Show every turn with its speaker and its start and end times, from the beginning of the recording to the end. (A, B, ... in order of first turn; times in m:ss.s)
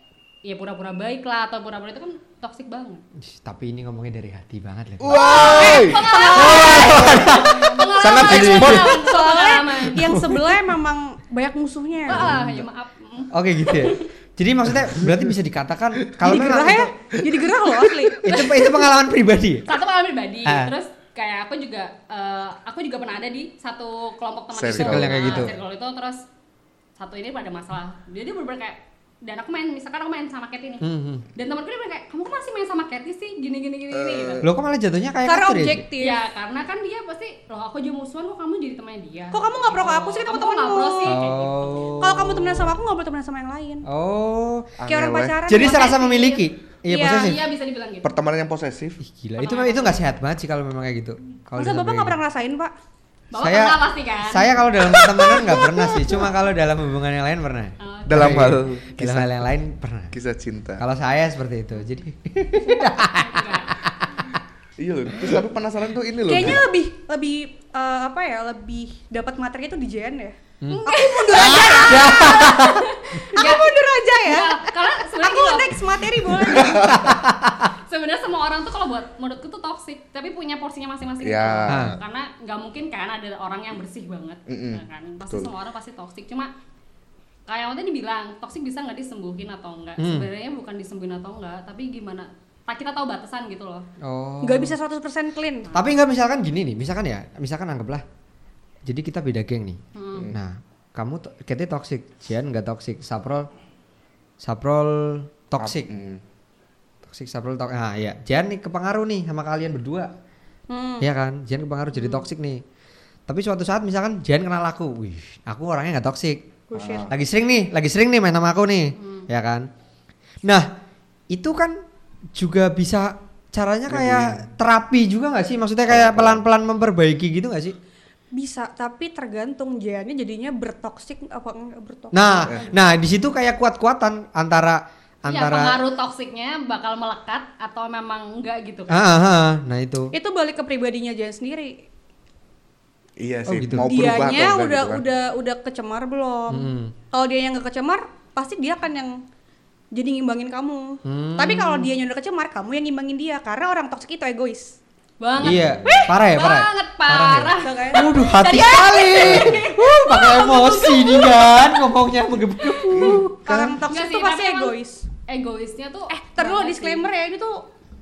0:00.4-0:03.0 A
0:03.2-0:09.0 B
0:05.0-0:06.1 C
0:05.1-0:10.1 A
0:05.5-0:06.9 D
0:06.6-0:09.0 C
0:08.8-0:12.3 D
0:09.9-0:10.6 B
0:12.1-0:12.7 B
0:12.1-0:14.1 A
0:13.3-0:16.9 B
0:15.0-0:15.3 C
0:16.2-0:18.2 D
0:17.2-0:18.1 C
0:18.2-0:19.7 B
0:18.2-0:18.9 A
0:19.7-0:26.2 A
0:20.4-0:20.7 B
0:24.6-0:25.4 C
0:24.8-0:25.5 B
0:27.0-0:34.5 A
0:30.8-0:31.2 B
0:33.9-0:34.4 C
0:34.4-0:35.9 B
0:35.2-0:36.2 D
0:36.0-0:41.9 A
0:39.3-0:41.2 D
0:41.1-0:42.7 B
0:42.0-0:43.9 D
0:43.9-0:44.8 B
0:44.8-0:45.4 C
0:44.8-0:46.0 D
0:45.5-0:47.4 B
0:45.6-0:46.4 A
0:46.9-0:47.3 D
0:47.0-0:48.1 A
0:48.0-0:49.0 C
0:49.0-0:52.2 B
0:49.4-0:50.0 A
0:51.6-0:52.7 D
0:53.3-0:54.6 A
0:53.4-1:00.1 B
0:55.4-0:55.7 D
0:57.8-0:58.4 A
0:58.1-0:59.3 C
1:00.1-1:00.8 C
1:00.8-1:04.3 B
1:03.0-1:03.8 A
1:04.8-1:06.6 C
1:06.3-1:12.7 D
1:10.7-1:13.7 A
1:11.3-1:11.8 C
1:11.6-1:12.8 B
1:13.3-1:14.6 D
1:14.2-1:15.7 A
1:15.2-1:16.9 D
1:16.5-1:17.2 C
1:16.8-1:26.5 A
1:16.9-1:17.5 B
1:21.2-1:22.0 C
1:21.7-1:22.0 B
1:24.5-1:25.5 C
1:27.5-1:33.8 A
1:30.0-1:30.3 B
1:34.0-1:34.8 B
1:34.4-1:35.7 D
1:35.8-1:38.0 B
1:38.9-1:39.8 B
1:39.9-1:40.3 A
1:40.3-1:43.5 B
1:44.4-1:45.9 B
1:45.6-1:46.2 C
1:47.1-1:50.1 B
1:50.7-1:51.1 D
1:51.0-1:52.6 B
1:51.9-1:52.3 A
1:53.3-1:56.4 B
1:56.7-1:57.1 D
1:56.7-1:57.1 C
1:57.1-1:59.7 B
1:59.0-1:59.3 A
2:01.3-2:01.8 B
2:02.4-2:07.8 B
2:03.9-2:04.3 C
2:05.9-2:06.4 C
2:08.4-2:12.5 D
2:12.1-2:15.8 B
2:12.4-2:12.7 C
2:15.3-2:19.0 A
2:18.9-2:20.1 B
2:20.1-2:21.7 D
2:23.2-2:25.1 C
2:23.5-2:24.1 B
2:23.8-2:29.2 D
2:26.5-2:26.9 B
2:30.0-2:34.8 D
2:31.1-2:31.9 B
2:35.2-2:41.9 A
2:35.4-2:43.7 B
2:37.6-2:38.0 D
2:42.6-2:43.1 A
2:42.9-2:43.8 C
2:43.4-2:45.0 D
2:43.9-2:44.8 A
2:45.3-2:47.1 A
2:46.1-2:47.6 D